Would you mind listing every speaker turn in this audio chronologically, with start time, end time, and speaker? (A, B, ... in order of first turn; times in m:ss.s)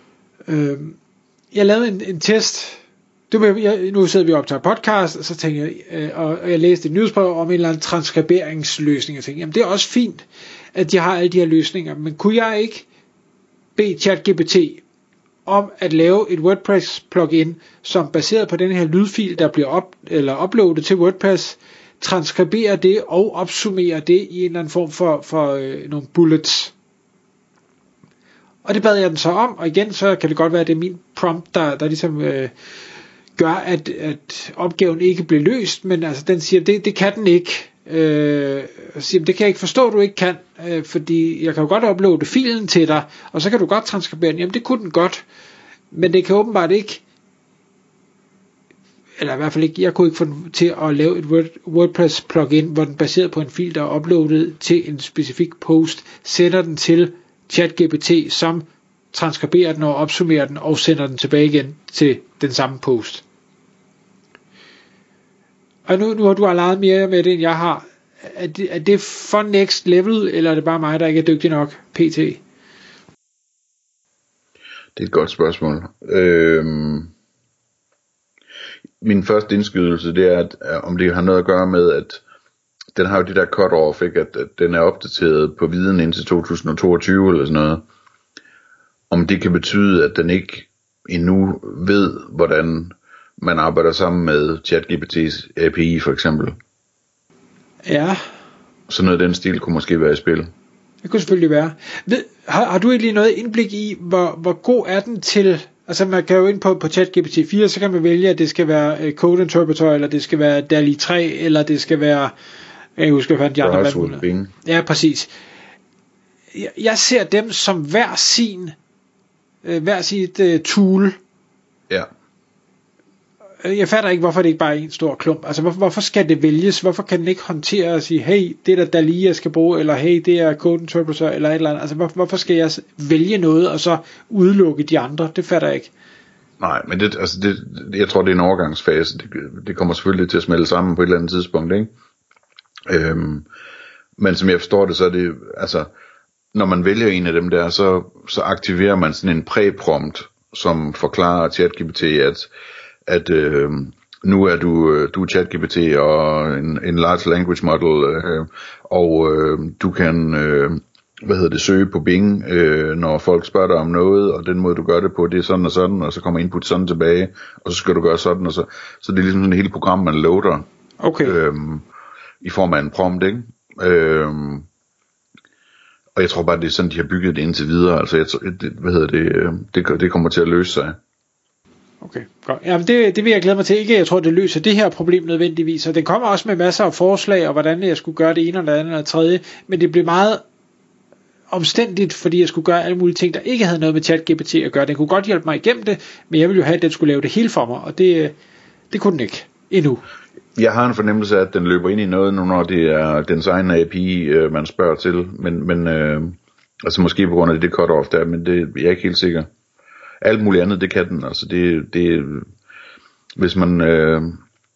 0:00.5-0:01.0 A
0:01.5-0:02.8 A
0:03.3-0:12.8 A
0:13.8-0:14.8 A
0:15.4-0:26.7 A
0:28.6-0:32.5 A
0:33.4-0:45.2 A
0:45.9-0:47.0 A
0:49.2-1:03.2 A
1:05.9-1:12.4 A
1:15.0-1:17.1 B
1:19.0-1:22.2 B
1:22.9-1:27.8 B
1:29.1-1:36.5 B
1:37.8-1:38.2 A
1:38.9-1:40.5 B
1:41.0-1:52.3 A
1:53.0-1:55.3 A
1:53.6-1:54.5 B
1:56.5-1:58.7 A
1:59.6-2:01.2 A
2:03.6-2:15.9 A
2:16.6-2:21.9 B
2:22.9-2:23.4 B
2:24.2-2:25.9 B
2:26.5-2:32.5 B
2:33.1-2:50.7 B
2:51.0-2:51.4 A
2:51.2-2:51.8 B
2:52.4-2:54.6 B
2:56.2-3:01.0 B
3:02.0-3:10.4 A
3:11.5-3:18.4 A
3:18.9-3:20.0 A
3:20.6-3:29.5 B
3:30.2-3:32.5 B
3:33.4-3:34.4 B